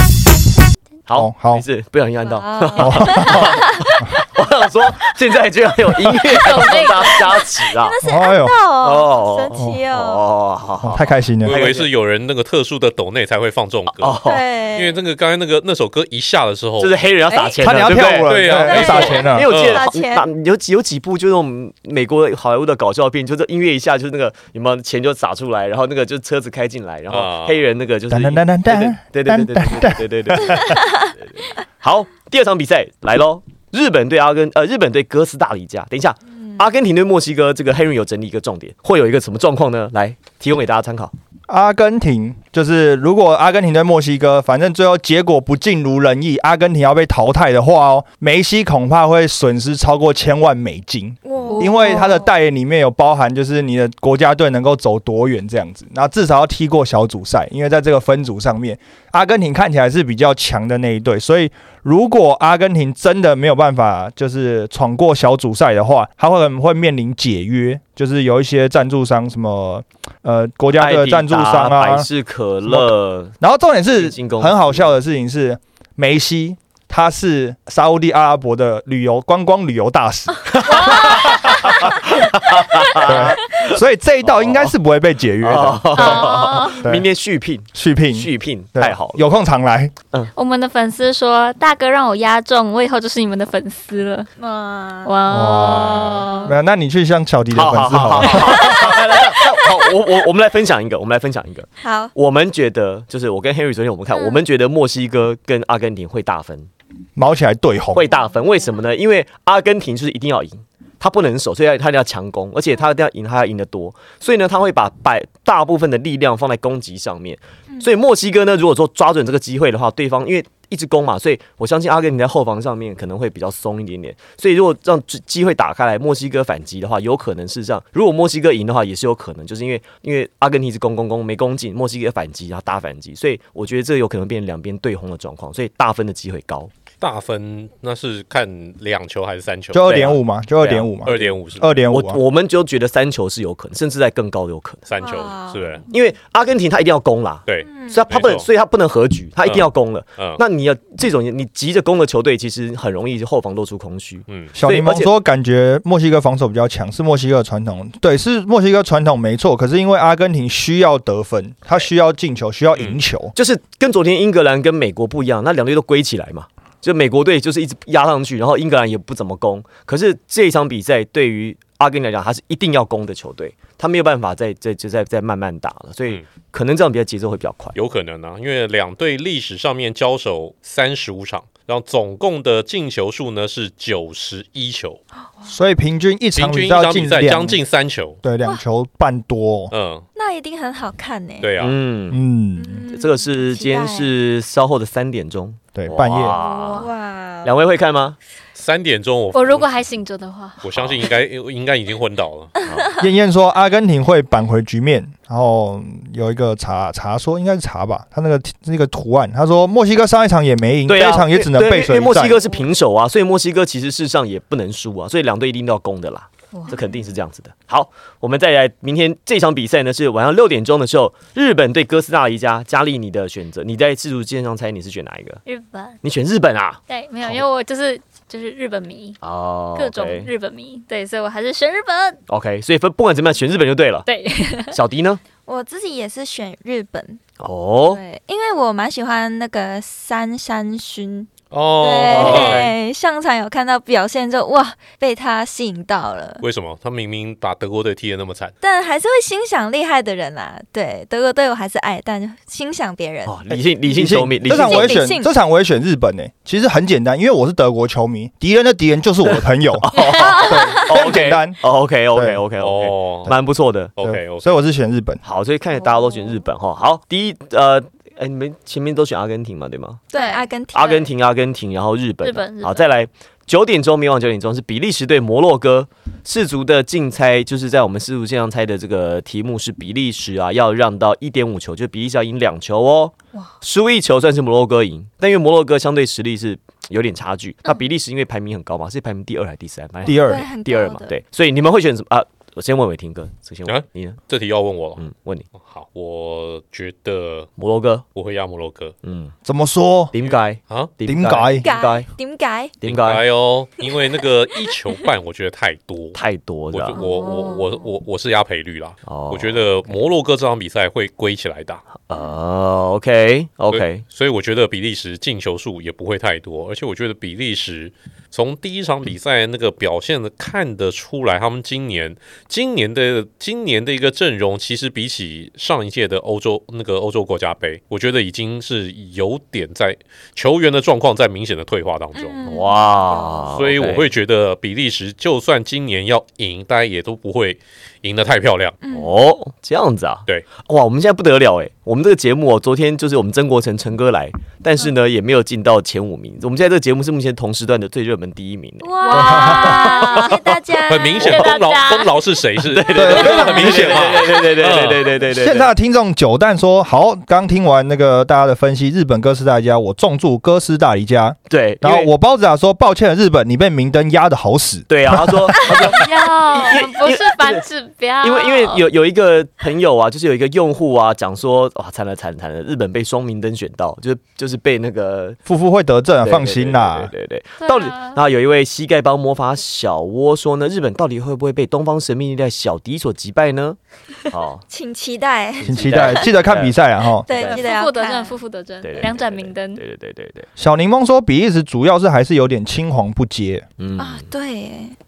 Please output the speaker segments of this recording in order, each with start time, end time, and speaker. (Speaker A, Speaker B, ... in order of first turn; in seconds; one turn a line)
Speaker A: 1.1-8.0
Speaker B: 1.1-1.6
Speaker C: 2.2-4.1
Speaker B: 2.8-3.6
Speaker D: 6.3-7.4
Speaker C: 7.7-10.2
Speaker B: 8.0-8.5
Speaker A: 8.8-11.9
Speaker B: 9.5-9.8
Speaker B: 10.8-11.6
Speaker E: 11.4-14.2
Speaker A: 13.9-14.4
Speaker C: 14.2-15.0
Speaker E: 14.7-16.9
Speaker A: 16.8-18.3
Speaker C: 17.3-20.3
Speaker B: 17.6-19.5
Speaker E: 18.1-19.8
Speaker A: 18.9-41.1
Speaker E: 27.1-27.6
Speaker B: 28.1-30.8
Speaker C: 30.5-31.1
Speaker B: 41.5-72.1
Speaker C: 51.2-52.2
Speaker D: 51.5-52.1
Speaker A: 70.7-73.4
Speaker B: 72.7-87.1
Speaker A: 74.0-74.9
Speaker A: 80.5-84.7
Speaker D: 80.7-81.6
Speaker A: 85.4-89.2
Speaker D: 85.9-86.8
Speaker B: 87.7-89.9
Speaker D: 90.3-94.3
Speaker C: 94.4-95.2
Speaker D: 95.0-96.5
Speaker B: 95.3-98.9
Speaker C: 95.9-96.5
Speaker A: 97.5-106.7
Speaker C: 98.4-99.0
Speaker C: 101.8-102.1
Speaker B: 107.2-108.1
Speaker A: 107.9-136.7
Speaker E: 137.0-140.1
Speaker B: 139.7-142.2
Speaker A: 139.8-141.3
Speaker E: 141.0-141.7
Speaker A: 141.9-144.8
Speaker E: 144.8-145.8
Speaker C: 145.0-145.7
Speaker A: 145.9-155.1
Speaker E: 147.5-148.4
Speaker C: 147.6-148.0
Speaker E: 149.4-150.4
Speaker B: 154.5-163.3
Speaker A: 163.3-177.8
Speaker E: 177.7-185.0
Speaker B: 185.5-187.6
Speaker E: 186.3-188.2
Speaker B: 188.2-189.7
Speaker E: 189.7-190.0
Speaker C: 190.1-191.5
Speaker E: 191.4-191.8
Speaker A: 191.6-192.2
Speaker B: 192.1-192.8
Speaker C: 192.6-194.1
Speaker A: 192.9-196.9
Speaker B: 195.7-196.3
Speaker D: 196.3-196.9
Speaker C: 196.7-197.5
Speaker A: 197.4-198.2
Speaker E: 198.6-199.7
Speaker D: 199.3-200.6
Speaker A: 200.6-201.0
Speaker E: 200.6-202.5
Speaker A: 202.6-202.9
Speaker B: 203.0-212.4
Speaker A: 210.9-225.4
Speaker D: 225.4-226.0
Speaker A: 226.0-227.4
Speaker D: 226.9-229.2
Speaker A: 229.2-230.3
Speaker D: 229.8-232.2
Speaker A: 232.3-234.1
Speaker D: 234.1-234.8
Speaker A: 234.7-235.2
Speaker C: 235.4-237.2
Speaker A: 237.4-238.0
Speaker C: 237.9-241.3
Speaker E: 241.5-242.7
Speaker C: 241.8-246.4
Speaker A: 242.1-242.7
Speaker E: 246.4-248.5
Speaker C: 248.6-253.6
Speaker A: 253.2-255.0
Speaker B: 253.9-261.6
Speaker C: 254.5-255.3
Speaker A: 259.2-263.9
Speaker C: 260.3-260.8
Speaker B: 262.1-262.4
Speaker E: 262.6-263.3
Speaker E: 264.0-264.5
Speaker B: 264.0-265.2
Speaker A: 265.2-270.0
Speaker C: 270.1-271.1
Speaker D: 270.1-270.4
Speaker A: 270.7-294.2
Speaker D: 272.2-272.9
Speaker B: 290.0-290.5
Speaker C: 290.1-291.1
Speaker E: 293.6-295.0
Speaker A: 295.0-295.4
Speaker E: 295.6-297.5
Speaker A: 297.6-298.0
Speaker E: 298.1-298.9
Speaker A: 299.0-299.3
Speaker B: 299.4-300.1
Speaker A: 300.1-302.1
Speaker E: 300.3-300.9
Speaker B: 301.1-301.7
Speaker C: 301.6-302.8
Speaker A: 302.8-303.2
Speaker E: 302.8-306.2
Speaker A: 306.1-307.0
Speaker E: 306.7-311.8
Speaker C: 307.0-307.6
Speaker D: 307.1-307.6
Speaker A: 309.0-309.6
Speaker A: 312.1-314.0
Speaker E: 313.7-332.4
Speaker C: 332.1-333.5
Speaker A: 332.4-334.1
Speaker E: 333.5-338.8
Speaker C: 338.8-339.1
Speaker A: 338.9-350.6
Speaker C: 348.8-351.4
Speaker D: 349.0-350.4
Speaker B: 349.1-349.8
Speaker E: 350.9-355.1
Speaker D: 351.1-352.2
Speaker A: 351.2-351.5
Speaker A: 352.6-355.7
Speaker B: 352.9-353.9
Speaker B: 355.3-365.6
Speaker A: 361.5-362.1
Speaker A: 364.9-367.6
Speaker D: 365.6-368.9
Speaker A: 368.2-375.4
Speaker B: 375.4-377.1
Speaker A: 376.2-384.6
Speaker D: 377.6-378.2
Speaker C: 384.7-386.3
Speaker B: 385.6-387.3
Speaker A: 385.7-386.8
Speaker C: 387.2-388.4
Speaker A: 387.3-387.6
Speaker D: 387.4-389.8
Speaker A: 388.8-390.5
Speaker B: 390.6-393.6
Speaker A: 393.8-394.3
Speaker C: 394.0-394.9